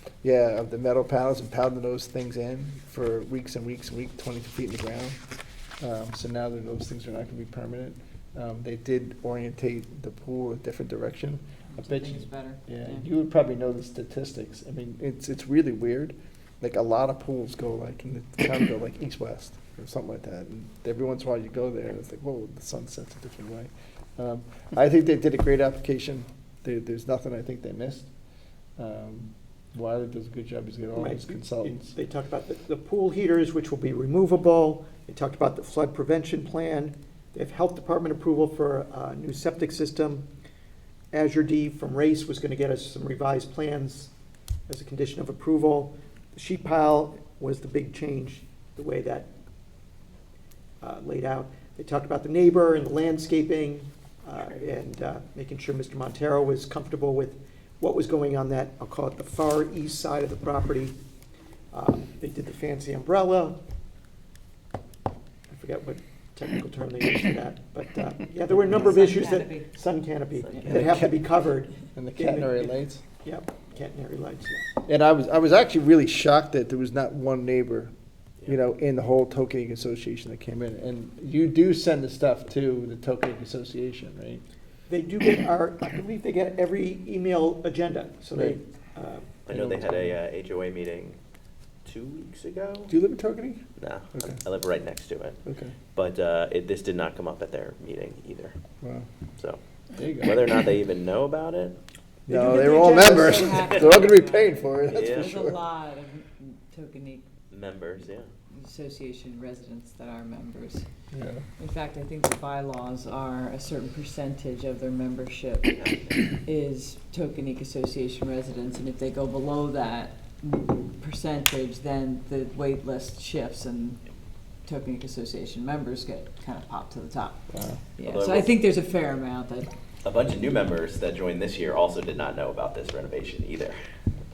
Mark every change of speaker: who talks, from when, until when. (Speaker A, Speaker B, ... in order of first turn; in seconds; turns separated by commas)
Speaker A: 0.2-5.2, Speaker A: 5.8-28.1, Speaker B: 11.7-13.1, Speaker A: 28.8-31.9, Speaker C: 30.9-40.2, Speaker C: 41.1-44.1, Speaker C: 44.7-49.3, Speaker C: 50.8-61.0, Speaker C: 61.7-63.6, Speaker C: 65.5-74.6, Speaker B: 68.6-69.7, Speaker A: 70.6-71.2, Speaker A: 72.0-73.0, Speaker A: 74.9-77.9, Speaker A: 78.5-84.4, Speaker C: 84.9-89.4, Speaker D: 89.5-91.2, Speaker A: 89.5-90.2, Speaker D: 91.8-92.9, Speaker A: 92.9-93.6, Speaker D: 93.8-95.4, Speaker A: 94.1-94.4, Speaker A: 95.5-95.8, Speaker D: 95.9-98.6, Speaker A: 98.8-99.1, Speaker A: 100.0-100.4, Speaker D: 100.2-101.8, Speaker A: 102.3-105.6, Speaker C: 102.3-103.6, Speaker B: 102.5-107.3, Speaker D: 104.9-105.3, Speaker D: 107.5-108.3, Speaker B: 108.5-110.8, Speaker A: 111.1-111.5, Speaker B: 111.6-124.0, Speaker D: 115.7-116.3, Speaker B: 124.7-127.5, Speaker A: 127.5-127.8, Speaker B: 128.0-129.7, Speaker D: 128.0-128.7, Speaker D: 130.0-133.8